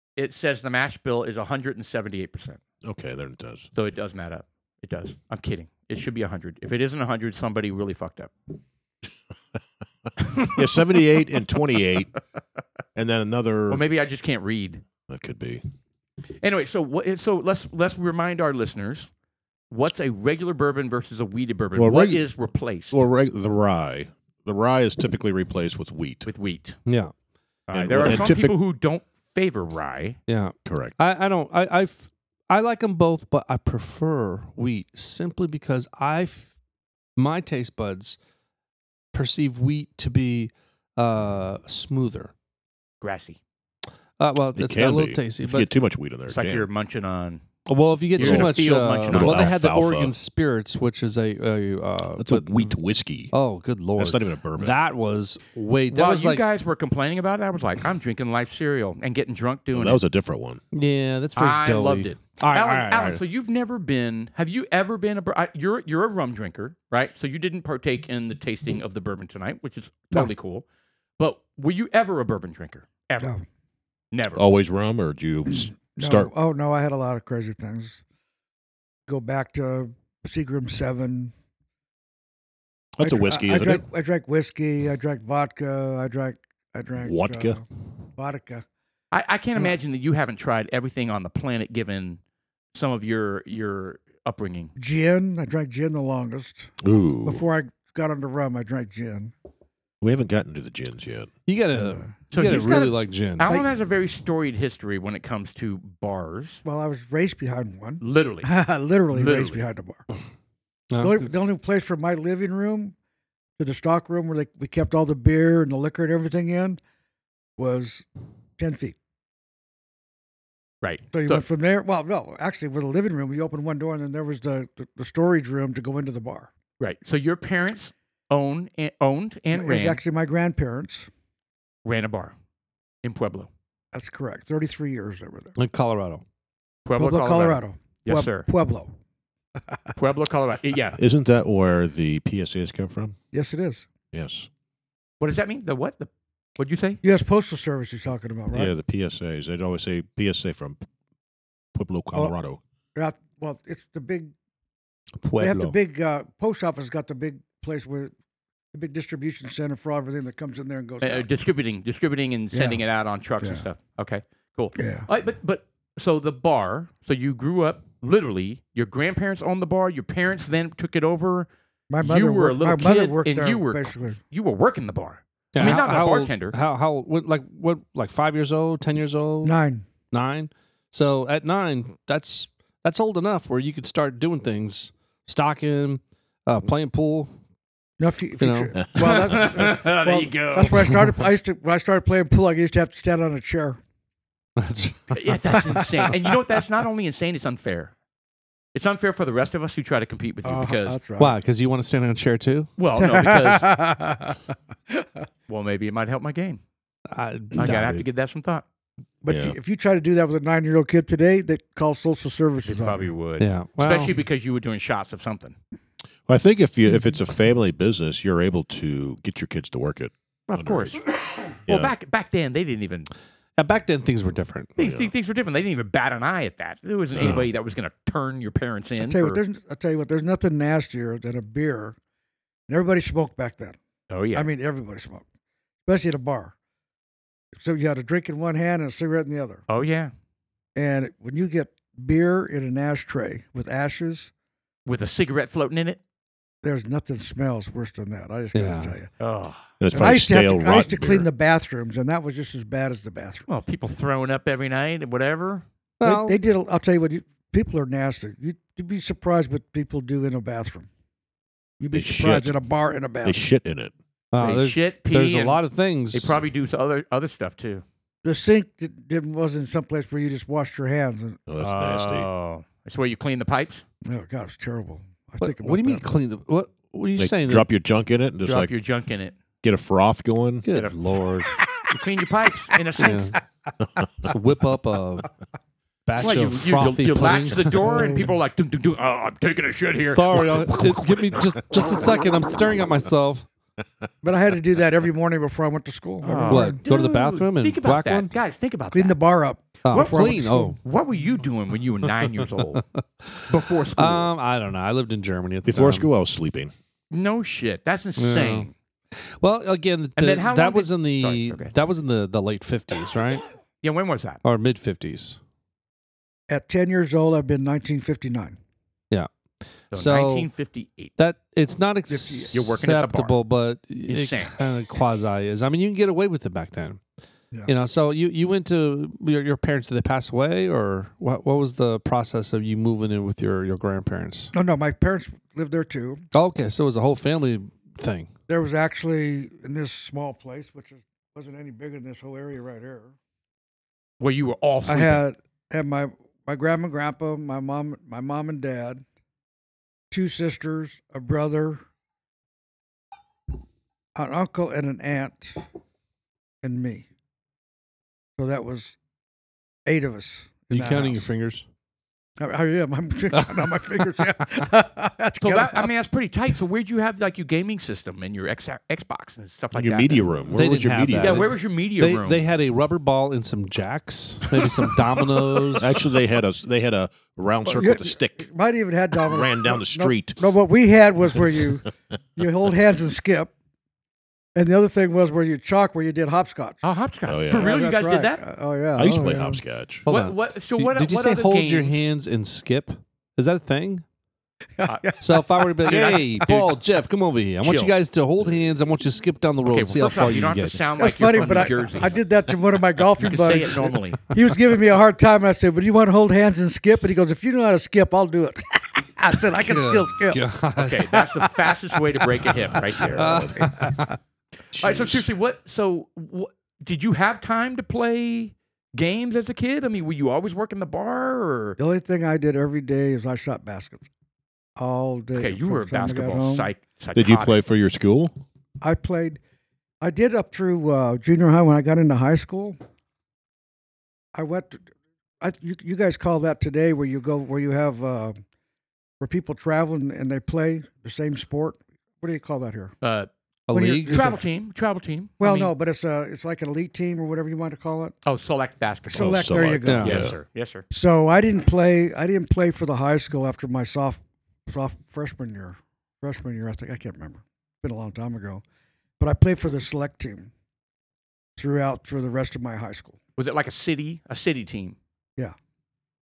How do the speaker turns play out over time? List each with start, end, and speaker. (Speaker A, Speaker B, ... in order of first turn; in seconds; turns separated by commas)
Speaker A: 0.1-2.6, Speaker B: 2.8-3.7, Speaker A: 3.7-8.3, Speaker A: 10.2-11.2, Speaker B: 10.5-12.1, Speaker B: 12.9-13.8, Speaker A: 13.7-14.8, Speaker B: 15.1-15.6, Speaker A: 16.4-19.1, Speaker A: 19.7-23.0, Speaker B: 21.7-22.3, Speaker B: 22.9-26.3, Speaker A: 26.2-26.8, Speaker C: 26.9-27.1, Speaker A: 27.7-30.2, Speaker B: 27.7-28.6, Speaker C: 30.3-36.5, Speaker B: 30.6-30.9, Speaker C: 37.2-38.2, Speaker C: 39.1-42.3, Speaker A: 43.0-43.4, Speaker C: 44.2-45.7, Speaker B: 44.5-46.7, Speaker A: 46.3-47.4, Speaker C: 47.6-52.7, Speaker A: 48.1-49.5, Speaker B: 48.2-50.1, Speaker B: 52.2-53.3, Speaker C: 53.3-56.4, Speaker B: 54.0-54.8, Speaker A: 55.9-60.0, Speaker B: 59.7-60.6, Speaker C: 60.7-63.2, Speaker A: 61.4-70.6, Speaker A: 71.2-73.3, Speaker A: 74.1-74.4, Speaker B: 74.3-76.3, Speaker D: 75.5-78.0, Speaker D: 79.1-81.3, Speaker B: 83.0-83.8, Speaker D: 83.0-87.6, Speaker B: 87.0-87.6, Speaker D: 88.2-88.6, Speaker A: 89.1-92.2, Speaker A: 92.7-94.7, Speaker D: 94.8-96.7, Speaker B: 96.8-97.4, Speaker D: 97.2-99.3, Speaker B: 100.0-101.3, Speaker C: 101.5-103.7, Speaker D: 101.7-102.1, Speaker A: 102.3-106.6, Speaker D: 106.6-110.0, Speaker A: 108.0-108.5, Speaker A: 109.1-109.6, Speaker C: 110.9-111.3, Speaker D: 111.0-112.9, Speaker D: 113.6-116.8, Speaker D: 117.6-118.0, Speaker D: 118.6-119.0, Speaker A: 120.8-121.4, Speaker D: 121.1-126.5, Speaker A: 126.8-130.0, Speaker D: 129.5-131.1, Speaker A: 131.8-132.3, Speaker A: 133.0-133.5, Speaker D: 133.9-135.6, Speaker C: 135.6-136.2, Speaker A: 136.8-138.5, Speaker D: 137.0-138.9, Speaker A: 140.0-141.0, Speaker B: 141.0-143.2, Speaker D: 143.3-143.9, Speaker B: 144.1-144.5, Speaker A: 145.2-147.0, Speaker D: 147.0-148.7, Speaker B: 148.5-150.8, Speaker B: 151.7-152.6, Speaker D: 152.9-154.3, Speaker C: 155.2-155.8, Speaker D: 155.4-158.1, Speaker D: 158.7-161.3, Speaker A: 161.0-171.5, Speaker D: 162.5-162.8, Speaker D: 163.4-163.7, Speaker D: 164.8-165.1, Speaker D: 171.9-174.2, Speaker A: 172.0-176.6, Speaker C: 175.5-179.6, Speaker D: 179.4-179.8, Speaker C: 180.1-187.3, Speaker D: 188.0-193.8, Speaker C: 188.4-188.7, Speaker A: 188.9-191.0, Speaker C: 194.6-195.2, Speaker A: 195.1-197.9, Speaker D: 195.5-196.2, Speaker A: 198.7-201.0, Speaker D: 200.4-201.4, Speaker C: 201.2-202.7, Speaker A: 202.8-203.7, Speaker D: 202.9-205.1, Speaker A: 205.5-206.6, Speaker C: 207.1-208.1, Speaker A: 207.5-208.6, Speaker D: 209.2-213.1, Speaker B: 209.3-209.6, Speaker A: 212.6-215.6, Speaker C: 213.4-214.1, Speaker B: 216.3-221.0, Speaker A: 220.5-223.1, Speaker C: 223.6-224.7, Speaker A: 224.8-229.4, Speaker B: 224.8-225.1, Speaker B: 227.1-227.5, Speaker D: 229.0-231.9, Speaker D: 232.7-233.8, Speaker A: 234.1-234.5, Speaker D: 234.3-235.2, Speaker D: 235.8-236.5, Speaker D: 237.6-239.6, Speaker A: 239.7-240.1, Speaker D: 240.8-244.3, Speaker A: 244.8-246.0, Speaker D: 246.6-249.1, Speaker C: 248.5-248.9, Speaker A: 249.2-249.6, Speaker B: 249.8-251.3, Speaker D: 249.9-253.5, Speaker A: 253.5-255.6, Speaker C: 256.0-256.4, Speaker D: 256.0-260.9, Speaker D: 261.8-263.4, Speaker B: 261.9-262.6, Speaker B: 263.2-263.9, Speaker C: 264.3-266.3, Speaker A: 264.4-267.8, Speaker D: 268.2-271.4, Speaker B: 271.5-272.3, Speaker A: 271.6-273.8, Speaker D: 274.1-276.1, Speaker C: 275.4-277.7, Speaker B: 277.2-278.7, Speaker A: 278.4-279.3, Speaker B: 279.6-280.6, Speaker C: 280.6-281.5, Speaker A: 281.9-283.4, Speaker C: 283.0-283.4, Speaker C: 284.2-285.3, Speaker C: 286.1-288.1, Speaker A: 286.2-291.3, Speaker D: 287.8-288.4, Speaker C: 290.0-293.5, Speaker D: 294.2-296.8, Speaker A: 296.2-299.2, Speaker C: 296.5-298.3, Speaker D: 298.9-300.8, Speaker C: 299.8-300.8, Speaker A: 299.9-300.2, Speaker A: 300.8-302.8, Speaker C: 302.2-306.1, Speaker A: 303.5-304.3, Speaker B: 305.6-306.7, Speaker A: 307.1-308.7, Speaker C: 308.2-308.7, Speaker C: 309.4-313.4, Speaker A: 310.2-311.7, Speaker A: 313.8-314.4, Speaker C: 314.4-315.4, Speaker D: 316.5-318.6, Speaker C: 319.9-320.5, Speaker A: 319.9-321.1, Speaker C: 321.2-327.0, Speaker D: 322.1-322.6, Speaker A: 322.5-323.4, Speaker A: 324.1-324.7, Speaker C: 327.6-334.5, Speaker D: 334.5-336.2, Speaker C: 336.3-338.3, Speaker D: 338.5-343.1, Speaker A: 344.2-345.2, Speaker D: 344.9-349.0, Speaker D: 350.1-351.8, Speaker D: 354.1-355.6, Speaker D: 356.6-357.0, Speaker D: 358.4-358.9, Speaker D: 359.9-361.2, Speaker C: 360.7-361.6, Speaker D: 362.4-365.9, Speaker C: 363.3-363.9, Speaker A: 365.4-370.3, Speaker B: 369.7-371.5, Speaker C: 370.5-375.9, Speaker A: 371.2-372.4, Speaker B: 375.8-378.5, Speaker D: 377.6-383.5, Speaker B: 379.2-380.4, Speaker D: 384.5-386.8, Speaker A: 386.8-388.4, Speaker B: 387.3-387.7, Speaker D: 387.5-389.6, Speaker B: 388.9-390.1, Speaker C: 390.0-394.0, Speaker A: 390.1-392.0, Speaker D: 394.8-395.9, Speaker C: 395.2-401.7, Speaker A: 395.8-396.8, Speaker A: 397.6-397.9, Speaker A: 399.6-402.2, Speaker D: 401.0-410.4, Speaker A: 403.2-404.2, Speaker C: 409.5-411.2, Speaker A: 410.8-413.5, Speaker C: 413.0-414.2, Speaker B: 413.1-413.6, Speaker D: 413.6-414.0, Speaker B: 414.7-415.1, Speaker A: 414.8-421.8, Speaker D: 421.8-424.1, Speaker D: 424.8-426.7, Speaker A: 425.3-427.6, Speaker B: 427.1-428.4, Speaker D: 428.8-429.4, Speaker D: 430.0-432.8, Speaker D: 434.3-434.8, Speaker D: 435.4-438.4, Speaker D: 439.2-442.9, Speaker A: 443.0-443.3, Speaker C: 443.7-444.4, Speaker D: 443.7-444.4, Speaker A: 443.9-445.7, Speaker D: 445.4-448.1, Speaker A: 448.2-450.8, Speaker D: 449.1-450.2, Speaker B: 449.1-450.3, Speaker C: 449.8-450.2, Speaker D: 450.9-458.6, Speaker D: 459.2-460.5, Speaker D: 461.6-463.2, Speaker A: 463.4-464.9